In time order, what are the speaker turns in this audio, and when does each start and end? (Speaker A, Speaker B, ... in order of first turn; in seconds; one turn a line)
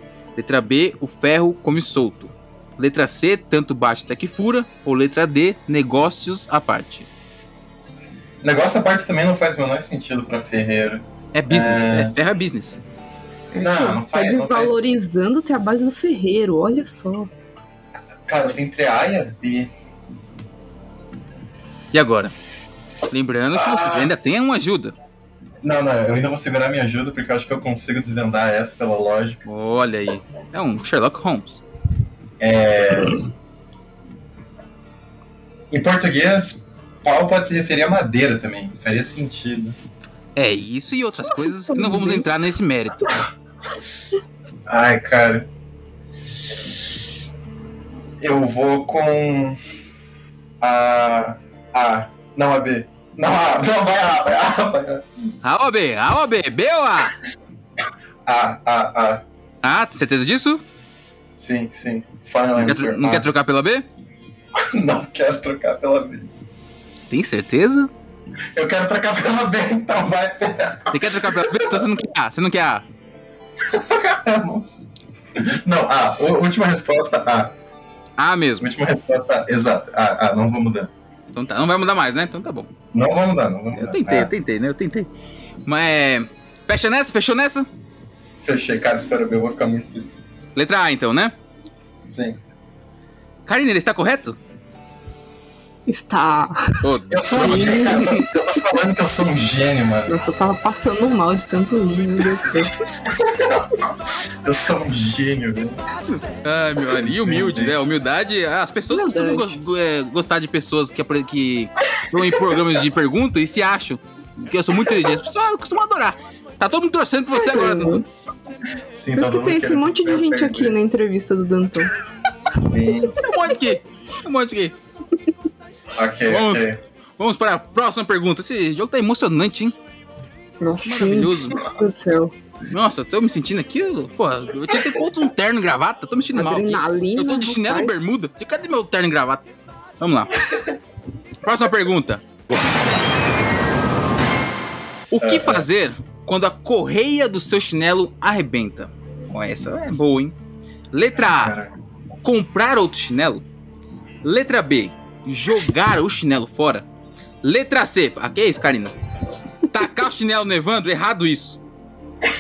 Speaker A: 0.4-7.1
Speaker B: 8.4-12.1
Speaker A: 11.3-12.8
Speaker C: 13.5-17.3
Speaker B: 13.6-14.8
Speaker B: 18.3-19.7
Speaker A: 21.9-22.3
Speaker A: 23.1-24.9
Speaker B: 23.5-24.1
Speaker B: 25.6-29.4
Speaker A: 29.5-31.6
Speaker B: 32.4-33.2
Speaker B: 35.7-39.8
Speaker A: 40.4-43.1
Speaker C: 41.2-42.3
Speaker B: 44.7-45.5
Speaker B: 48.2-49.6
Speaker B: 50.6-55.1
Speaker A: 55.4-57.1
Speaker B: 58.3-59.2
Speaker A: 59.6-60.6
Speaker B: 61.4-63.3
Speaker A: 62.6-63.9
Speaker B: 64.6-66.3
Speaker A: 67.1-67.9
Speaker B: 68.5-71.8
Speaker A: 70.9-72.9
Speaker B: 73.6-77.6
Speaker A: 78.2-78.7
Speaker B: 78.6-80.9
Speaker A: 81.3-82.7
Speaker B: 82.9-84.3
Speaker A: 83.7-85.1
Speaker A: 85.7-87.7
Speaker B: 88.4-90.1
Speaker A: 90.6-91.3
Speaker B: 92.1-92.4
Speaker A: 93.5-94.4
Speaker C: 95.9-96.8
Speaker A: 96.8-98.0
Speaker B: 97.1-100.2
Speaker C: 97.3-98.3
Speaker C: 100.1-102.7
Speaker B: 103.1-103.7
Speaker B: 104.4-105.8
Speaker A: 106.1-118.0
Speaker B: 106.9-107.8
Speaker C: 108.9-109.5
Speaker C: 117.3-118.0
Speaker B: 118.9-120.8
Speaker C: 119.2-121.9
Speaker B: 122.7-123.3
Speaker A: 123.2-124.7
Speaker B: 126.0-126.8
Speaker A: 126.3-126.7
Speaker A: 127.2-129.8
Speaker C: 130.6-132.3
Speaker A: 130.8-131.6
Speaker A: 132.7-139.4
Speaker C: 136.3-138.0
Speaker A: 140.0-140.3
Speaker A: 141.4-142.2
Speaker A: 145.1-150.3
Speaker B: 145.2-145.7
Speaker A: 150.9-151.6
Speaker B: 151.2-151.7
Speaker A: 152.2-153.4
Speaker A: 154.2-156.9
Speaker A: 157.4-158.9
Speaker A: 159.7-161.6